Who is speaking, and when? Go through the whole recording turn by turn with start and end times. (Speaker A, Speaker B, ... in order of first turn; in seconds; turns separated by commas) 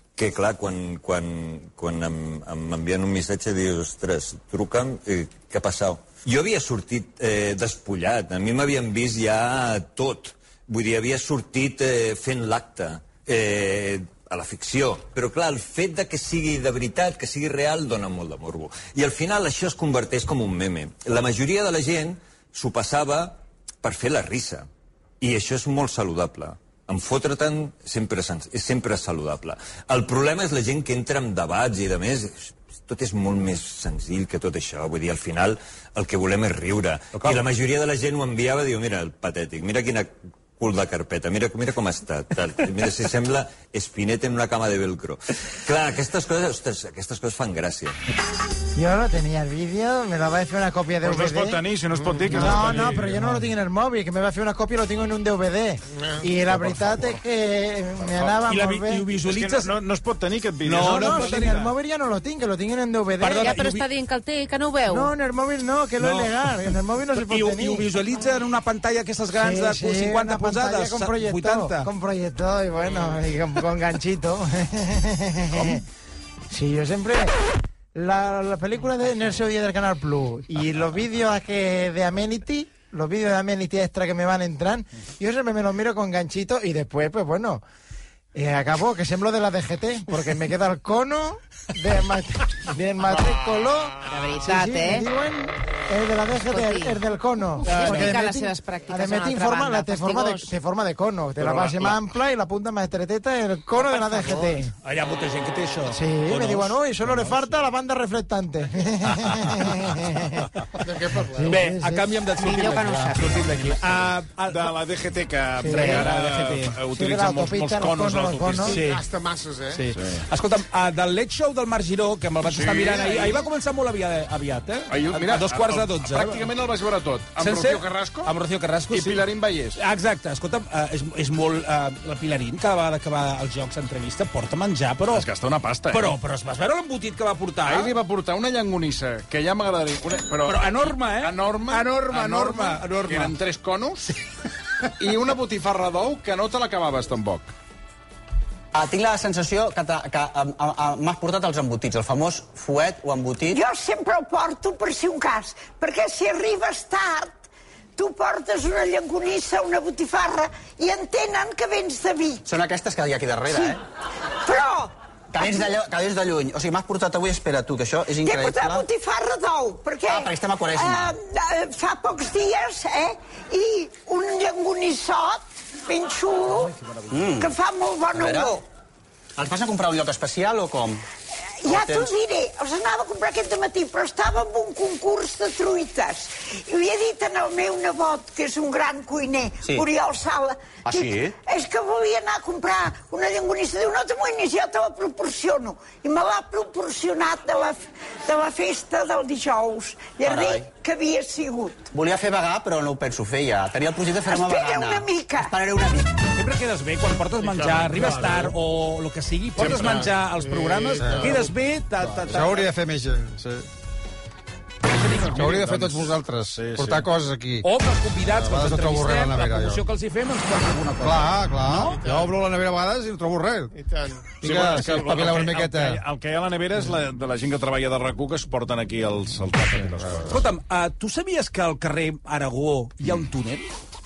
Speaker A: 0.2-24.7, Speaker A: 25.2-48.0, Speaker B: 48.7-51.6, Speaker C: 51.0-53.2, Speaker D: 52.0-52.5, Speaker B: 52.3-59.1, Speaker E: 53.0-53.4, Speaker D: 55.9-56.3, Speaker C: 56.5-57.2, Speaker C: 58.1-58.4, Speaker E: 58.5-59.7, Speaker C: 59.2-61.7, Speaker E: 60.6-61.5, Speaker B: 60.8-63.5, Speaker E: 63.2-63.8, Speaker F: 63.4-65.1, Speaker B: 64.9-67.9, Speaker E: 66.0-66.5, Speaker E: 67.1-71.9, Speaker B: 69.3-75.8, Speaker B: 76.5-77.3, Speaker B: 77.9-87.6, Speaker B: 88.3-104.7, Speaker F: 94.1-95.1, Speaker F: 96.4-97.0, Speaker F: 97.6-100.5, Speaker E: 97.6-98.5, Speaker C: 101.4-102.0, Speaker E: 103.8-107.7, Speaker B: 105.9-110.5, Speaker D: 110.8-111.5, Speaker B: 111.3-112.2, Speaker E: 111.5-114.7, Speaker F: 112.4-113.5, Speaker C: 113.3-118.8, Speaker B: 115.6-116.2, Speaker E: 115.7-116.7, Speaker B: 116.9-118.8, Speaker D: 118.7-119.8, Speaker E: 118.7-119.0, Speaker E: 119.7-126.5, Speaker C: 119.9-120.2, Speaker C: 122.4-123.4, Speaker C: 124.9-128.3, Speaker E: 127.4-129.2, Speaker C: 128.9-129.8, Speaker E: 129.8-135.3, Speaker C: 135.1-136.2, Speaker E: 135.9-137.9, Speaker C: 137.6-144.0, Speaker E: 140.4-143.3, Speaker C: 145.0-147.5, Speaker G: 148.7-153.6, Speaker H: 153.5-157.4, Speaker H: 158.0-162.4, Speaker G: 162.4-163.8, Speaker H: 164.4-164.9, Speaker G: 165.3-168.9, Speaker H: 168.2-176.7, Speaker G: 170.1-171.2, Speaker G: 176.7-177.5, Speaker H: 177.4-178.6, Speaker G: 178.1-178.6, Speaker G: 179.4-181.0, Speaker H: 181.6-201.9, Speaker G: 181.7-182.1, Speaker G: 190.8-191.3, Speaker G: 200.2-200.7, Speaker G: 201.9-206.1, Speaker H: 204.3-205.5, Speaker E: 206.3-212.7, Speaker D: 207.4-208.5, Speaker D: 209.6-211.4, Speaker C: 209.6-210.0, Speaker I: 211.0-213.7, Speaker E: 214.9-215.6, Speaker C: 215.0-217.1, Speaker I: 215.2-219.8, Speaker E: 217.6-222.0, Speaker I: 221.0-223.7, Speaker D: 221.6-222.4, Speaker D: 223.7-224.3, Speaker I: 224.3-226.0, Speaker C: 224.3-230.4, Speaker I: 229.9-230.3, Speaker E: 230.2-233.7